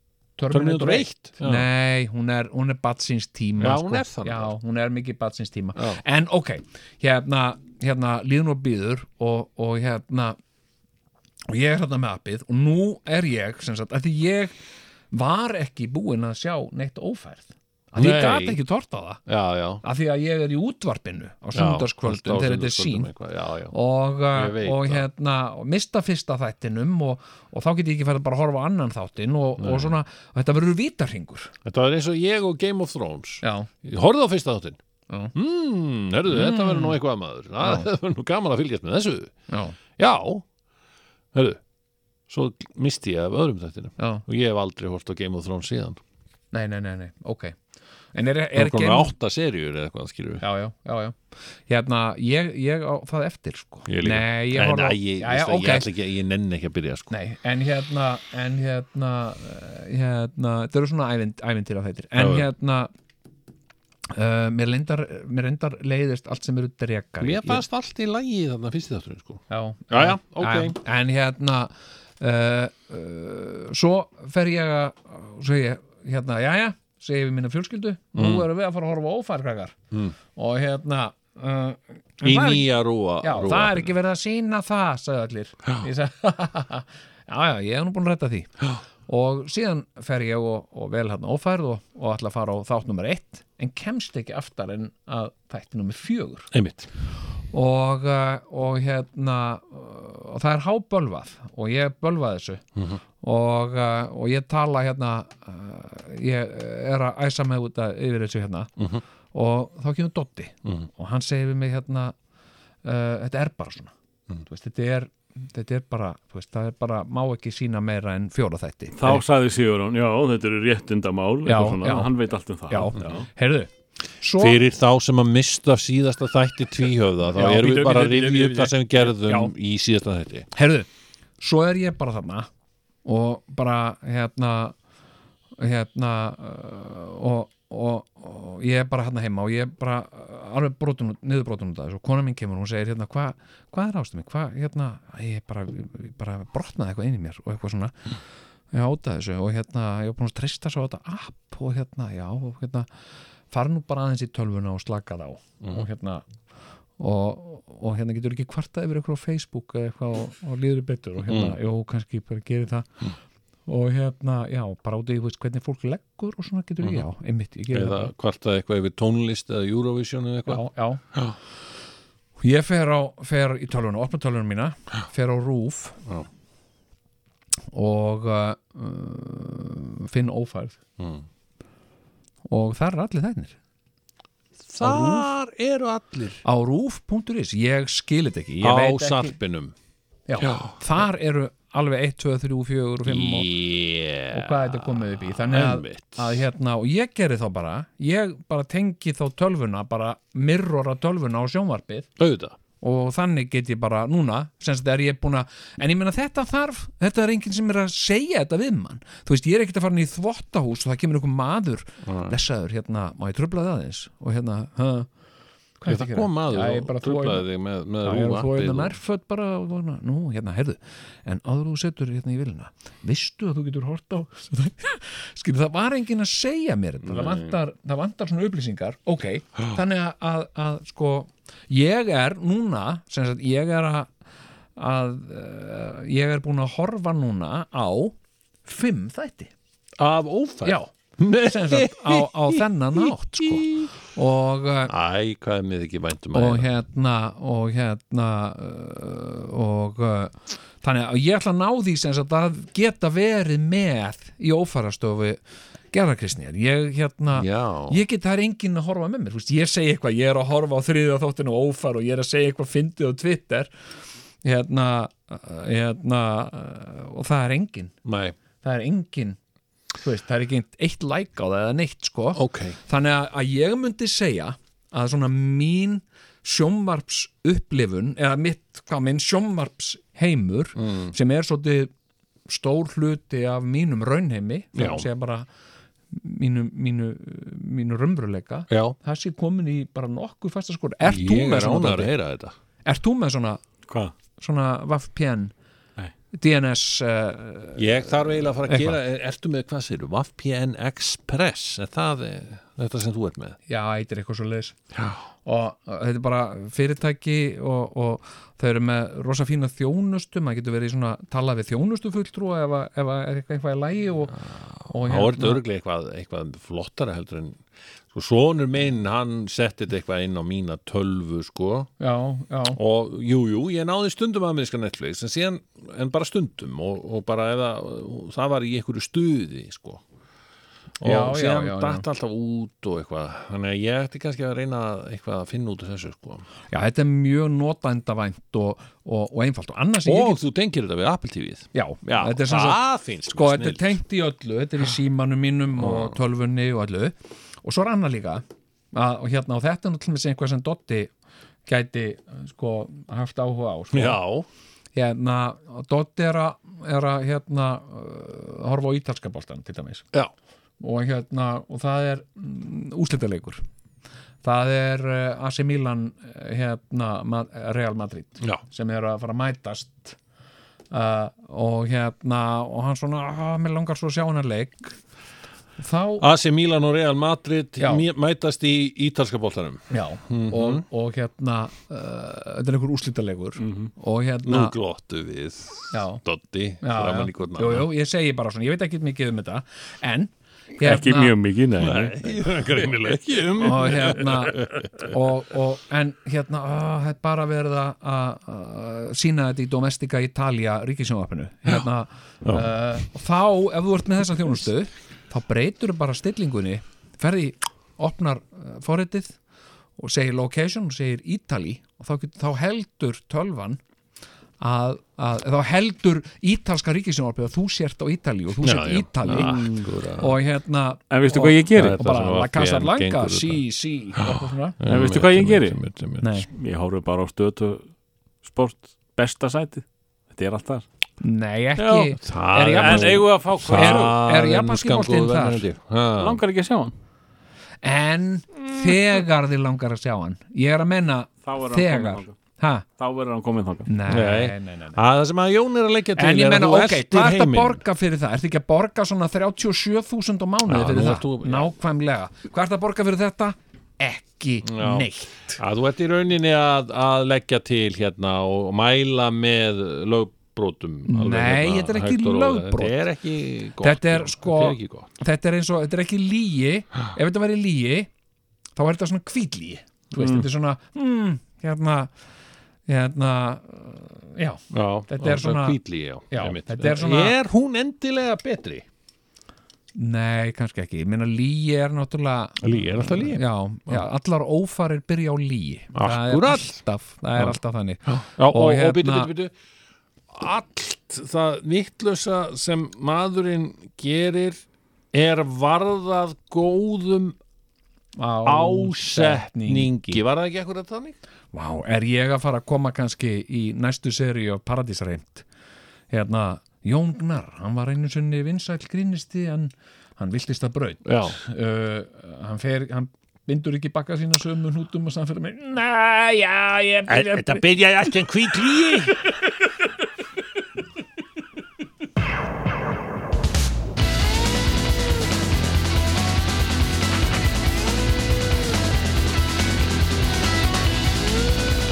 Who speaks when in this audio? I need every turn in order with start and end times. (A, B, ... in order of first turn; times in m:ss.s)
0:00.4-0:10.4 A
0:00.5-0:01.7 B
0:03.6-0:04.5 B
0:05.8-0:06.0 B
0:11.5-0:14.6 A
0:15.1-0:19.2 A
0:18.0-0:18.6 B
0:19.3-0:19.8 B
0:19.8-0:23.1 A
0:21.5-0:23.8 B
0:23.7-0:31.5 A
0:24.3-0:25.1 B
0:29.6-0:29.9 B
0:31.6-0:34.8 B
0:33.4-0:33.7 A
0:35.1-0:35.4 A
0:35.3-0:39.3 B
0:36.3-0:37.0 A
0:37.6-0:37.9 A
0:39.5-0:39.8 A
0:40.0-0:40.4 B
0:41.3-0:41.6 B
0:42.3-0:46.0 B
0:44.0-0:44.2 A
0:46.5-0:47.6 A
0:48.1-0:49.1 A
0:48.6-0:50.4 B
0:50.4-0:51.2 A
0:51.7-0:55.9 A
0:53.9-0:57.1 B
0:57.1-1:02.9 A
1:02.2-1:02.5 B
1:04.1-1:07.6 A
1:07.2-1:10.8 B
1:09.5-1:19.8 A
1:18.1-1:18.5 B
1:20.4-1:36.5 A
1:22.2-1:23.9 B
1:36.5-1:36.9 B
1:37.5-1:42.6 A
1:43.2-1:48.7 A
1:48.8-1:49.0 B
1:49.3-1:52.1 A
1:52.8-1:53.9 A
1:54.5-1:59.2 A
1:59.0-2:03.3 C
2:01.5-2:02.1 A
2:02.7-2:04.6 A
2:04.3-2:10.5 B
2:07.4-2:07.9 A
2:07.4-2:08.7 C
2:09.2-2:09.5 A
2:10.5-2:10.9 A
2:11.4-2:12.5 A
2:13.0-2:14.8 A
2:15.6-2:28.1 A
2:28.7-2:32.9 A
2:33.5-2:36.2 A
2:37.0-2:43.0 A
2:41.2-2:41.6 B
2:43.7-2:48.1 A
2:46.8-2:47.1 B
2:47.7-2:51.4 B
2:50.5-2:51.0 A
2:52.4-2:56.0 A
2:57.7-3:00.8 A
3:01.0-3:01.3 B
3:02.5-3:03.6 A
3:04.6-3:06.4 B
3:04.8-3:05.3 A
3:06.4-3:09.4 A
3:08.6-3:09.7 B
3:10.3-3:13.5 A
3:10.4-3:10.8 B
3:13.0-3:16.4 B
3:14.3-3:22.1 A
3:22.2-3:22.6 B
3:22.8-3:35.1 A
3:32.0-3:32.4 B
3:35.8-3:37.5 A
3:35.9-3:39.0 B
3:38.0-3:54.1 A
3:47.0-3:47.6 B
3:54.8-3:59.5 A
4:00.0-4:03.9 B
4:00.6-4:04.9 A
4:04.9-4:06.7 B
4:06.3-4:15.4 A
4:15.9-4:23.7 A
4:17.3-4:18.0 B
4:24.4-4:28.0 A
4:28.0-4:28.4 B
4:28.6-4:29.4 A
4:30.0-4:41.9 A
4:32.3-4:32.8 B
4:40.8-4:41.1 B
4:42.5-4:45.5 A
4:44.7-4:45.1 B
4:46.1-4:52.1 A
4:48.7-4:49.0 B
4:51.0-4:52.6 B
4:52.8-4:53.6 A
4:53.9-4:54.1 C
4:54.4-4:55.5 A
4:56.3-4:59.0 A
4:57.8-5:03.6 B
5:03.7-5:04.8 A
5:04.9-5:05.2 B
5:05.4-5:15.6 A
5:14.5-5:21.9 B
5:22.0-5:22.8 A
5:22.7-5:30.0 B
5:31.0-5:36.5 B
5:31.0-5:32.0 A
5:36.7-5:40.4 A
5:40.0-5:44.0 B
5:41.7-5:51.1 A
5:45.8-5:46.2 B
5:51.7-5:54.2 A
5:53.9-5:54.5 B
5:55.0-6:00.1 A
6:00.8-6:03.6 A
6:04.4-6:10.2 A
6:10.9-6:15.0 A
6:15.8-6:16.2 A
6:16.2-6:20.8 B
6:17.8-6:18.0 A
6:19.9-6:24.8 A
6:23.6-6:23.9 C
6:24.4-6:27.9 B
6:25.9-6:26.2 A
6:26.8-6:31.4 A
6:30.8-6:32.2 C
6:31.8-6:35.1 B
6:33.6-6:49.4 A
6:42.4-6:42.7 B
6:50.0-6:53.8 A
6:54.6-6:59.6 A
6:58.6-7:00.4 B
6:59.3-6:59.9 C
7:00.2-7:04.8 A
7:01.1-7:02.0 C
7:01.7-7:03.6 B
7:04.2-7:06.4 B
7:04.9-7:05.8 C
7:06.2-7:06.5 A
7:06.5-7:07.9 C
7:08.4-7:10.8 C
7:11.2-7:15.6 A
7:11.8-7:12.1 C
7:12.1-7:16.4 B
7:12.8-7:14.1 C
7:16.2-7:16.9 C
7:17.8-7:22.8 A
7:21.4-7:22.4 C
7:23.0-7:23.9 C
7:23.9-7:25.0 A
7:24.1-7:27.8 B
7:26.2-7:35.6 A
7:30.7-7:31.7 B
7:34.6-7:45.1 B
7:41.1-7:43.0 A
7:43.8-7:48.1 A
7:48.8-7:52.1 A
7:52.9-7:57.4 A
7:54.7-7:58.9 B
8:00.0-8:09.3 A
8:02.6-8:04.0 B
8:05.9-8:06.8 B
8:07.4-8:09.5 B
8:10.3-8:17.4 B
8:18.2-8:20.2 A
8:18.4-8:21.2 B
8:21.5-8:25.5 A
8:26.1-8:38.1 A
8:31.0-8:31.4 B
8:37.1-8:39.2 B
8:38.8-8:39.4 A